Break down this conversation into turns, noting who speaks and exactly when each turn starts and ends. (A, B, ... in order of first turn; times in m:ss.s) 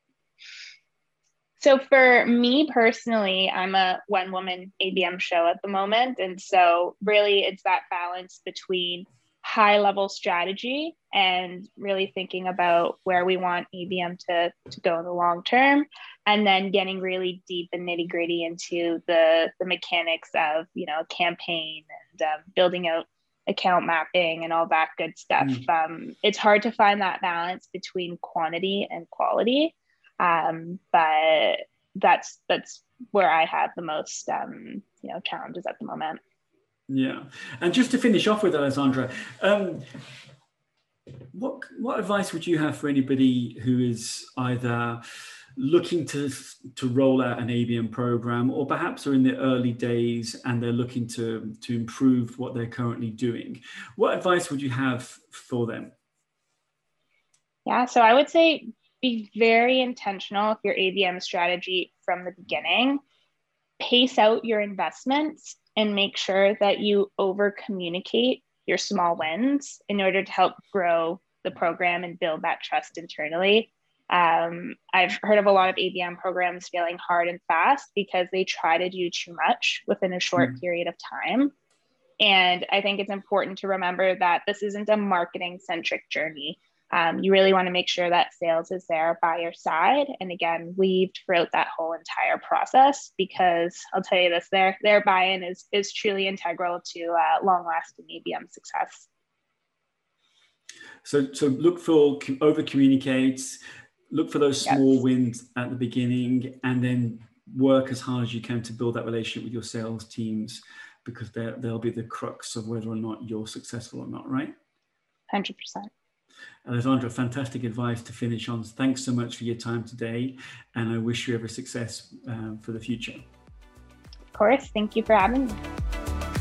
0:01.6-0:36.2 A
0:36.9-0:39.9 B
0:41.3-0:45.0 B
0:45.6-0:55.9 B
0:57.7-1:03.0 A
1:03.8-1:21.5 A
1:22.2-1:39.1 A
1:41.0-1:54.5 B
1:55.3-1:55.9 A
1:56.6-2:03.2 B
2:04.3-2:05.6 A